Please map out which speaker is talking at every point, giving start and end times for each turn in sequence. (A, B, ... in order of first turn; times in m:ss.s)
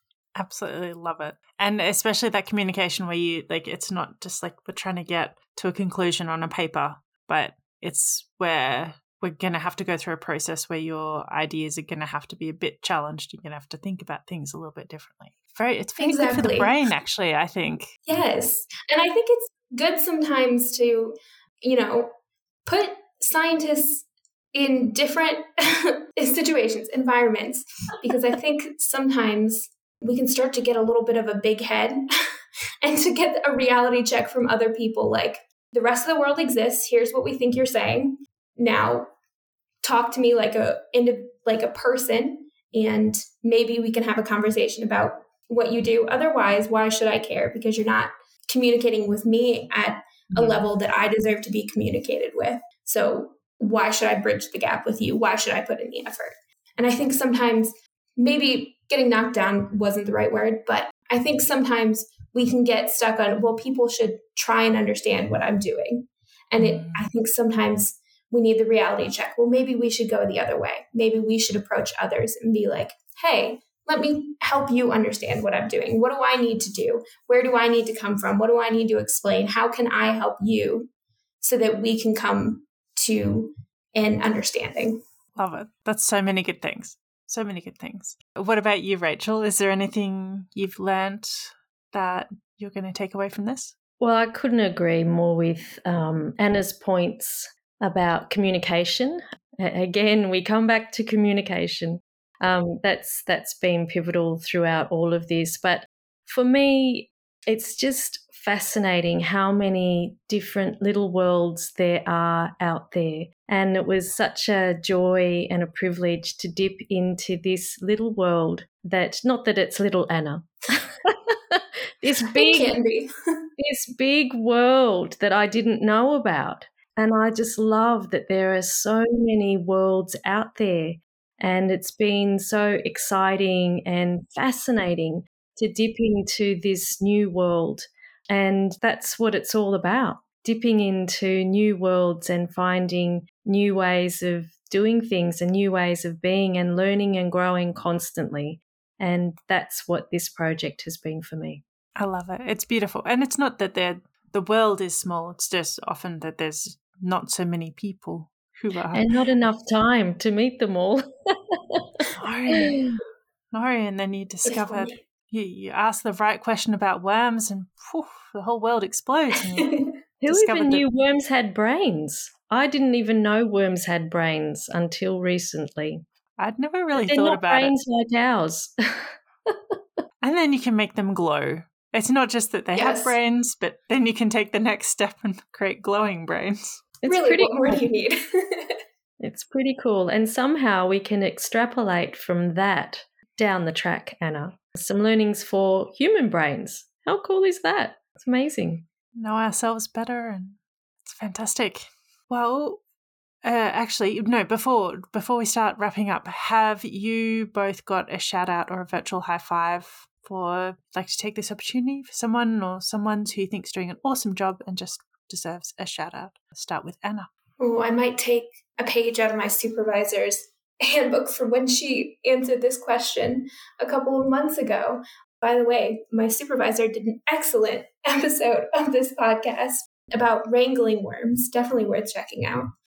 0:00.4-0:17.9 A
0:16.0-0:16.7 B
0:18.1-0:22.1 B
0:22.6-0:32.0 B
0:32.8-0:39.1 B
0:39.8-1:20.9 B
0:50.3-0:50.6 A
1:06.6-1:07.0 A
1:21.4-1:25.0 B
1:25.3-1:33.7 A
1:34.0-2:02.7 C
2:02.3-2:03.1 B
2:03.6-2:31.6 C
2:32.0-2:39.1 A
2:38.9-2:42.0 C
2:42.1-2:42.9 A
2:42.5-2:43.0 C
2:43.5-2:50.8 A
2:44.5-2:44.9 B
2:50.2-2:56.0 C
2:56.4-2:57.7 A
2:57.0-2:59.8 C
3:00.2-3:06.8 A
3:02.7-3:03.2 B
3:07.0-3:07.8 C
3:07.0-3:08.7 B
3:09.2-3:18.8 C
3:19.2-3:22.8 A
3:23.4-3:37.3 A
3:37.6-3:52.7 B